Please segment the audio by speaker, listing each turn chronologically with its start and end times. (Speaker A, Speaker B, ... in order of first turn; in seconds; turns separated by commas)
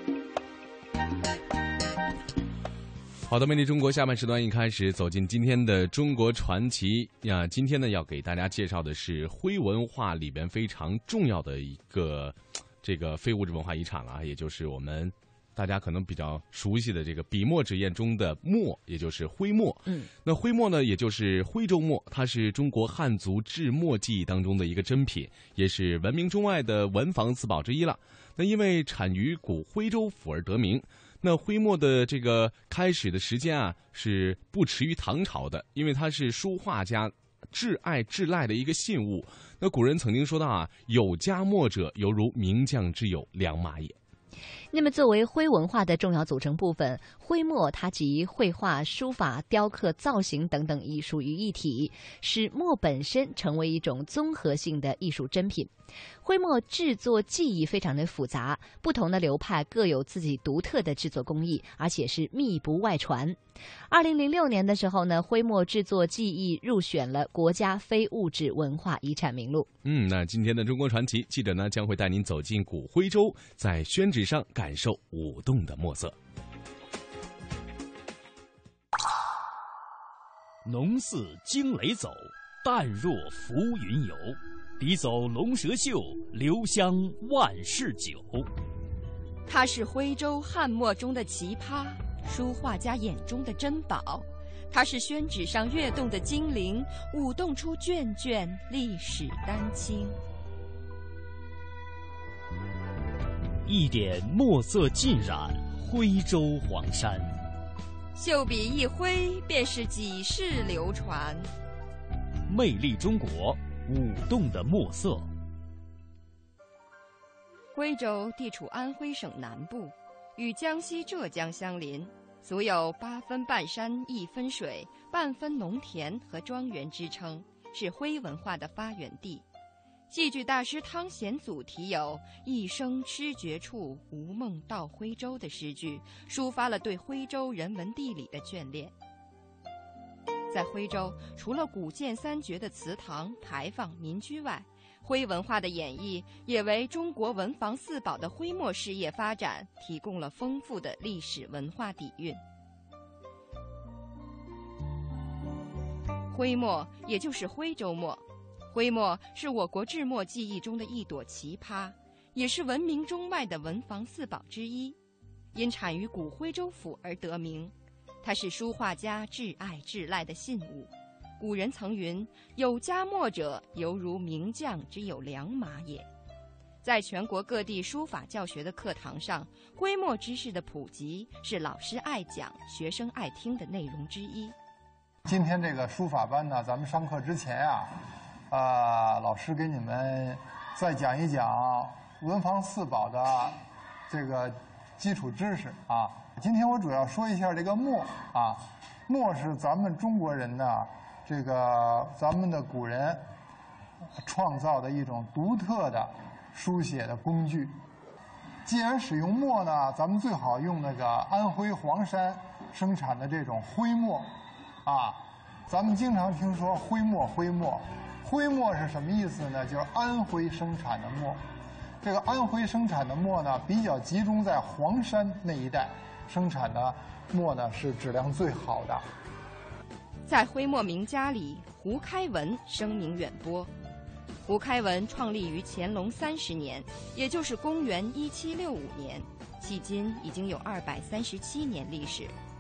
Speaker A: 3.3-44.0, Speaker B: 44.7-55.7, Speaker B: 56.2-63.4, Speaker B: 63.9-69.7, Speaker A: 69.8-76.2, Speaker C: 80.7-88.5, Speaker D: 89.5-100.2, Speaker C: 103.7-107.4, Speaker D: 108.2-111.5, Speaker C: 112.5-115.3, Speaker D: 117.7-129.4, Speaker D: 130.1-138.9, Speaker D: 140.5-152.4, Speaker D: 156.3-165.0, Speaker D: 165.5-176.1, Speaker D: 176.8-184.5, Speaker E: 185.3-188.0, Speaker E: 188.5-203.2, Speaker E: 204.2-207.8, Speaker E: 208.7-214.3, Speaker E: 214.9-221.4, Speaker E: 222.0-229.1, Speaker D: 230.3-233.7, Speaker D: 234.5-242.4